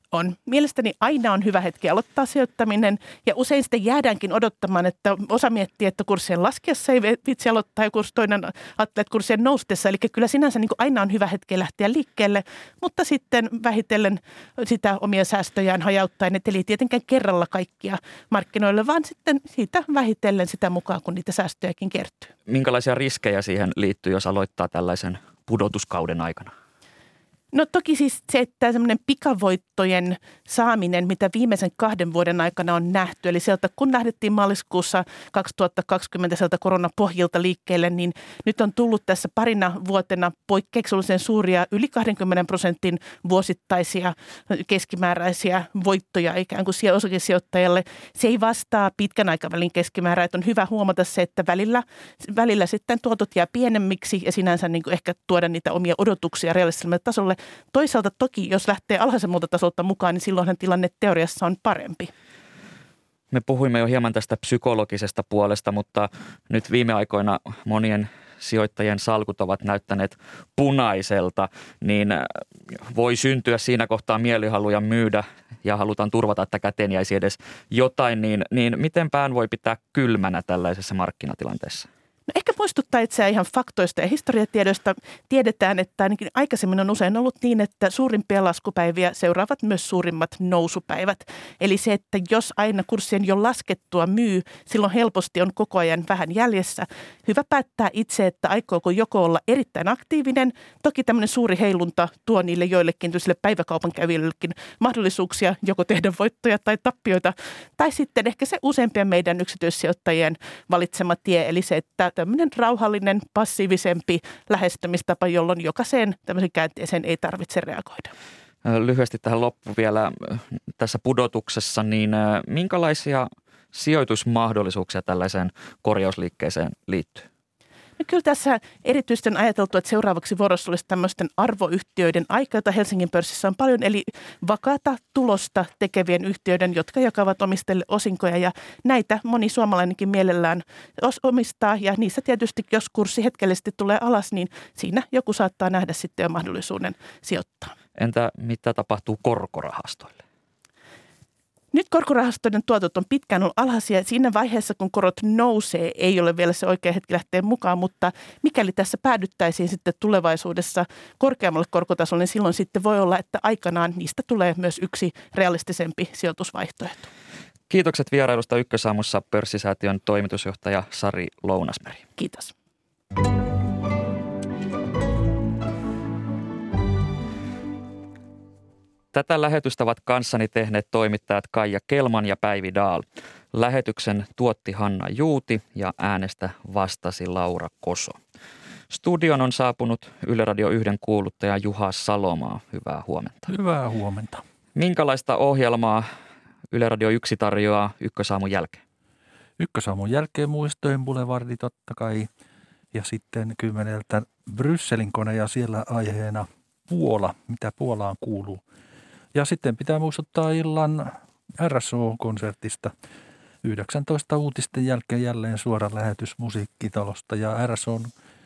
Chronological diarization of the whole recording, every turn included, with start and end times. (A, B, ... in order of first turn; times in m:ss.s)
0:00.1-0:22.3 A
0:22.5-0:26.5 B
0:27.5-1:02.1 A
1:03.3-1:21.9 B
1:22.3-1:58.1 A
1:58.6-2:07.3 B
2:08.0-2:27.7 A
2:28.0-2:30.2 B
2:31.7-2:47.1 A
2:47.7-2:52.0 B
2:52.2-2:52.5 A
2:59.1-3:08.2 B
3:08.9-3:13.5 B
3:13.5-3:14.4 C
3:14.8-3:16.1 B
3:16.7-3:18.8 B
3:19.6-3:22.3 C
3:22.9-3:28.6 C
3:29.3-3:32.9 C
3:33.6-3:38.1 C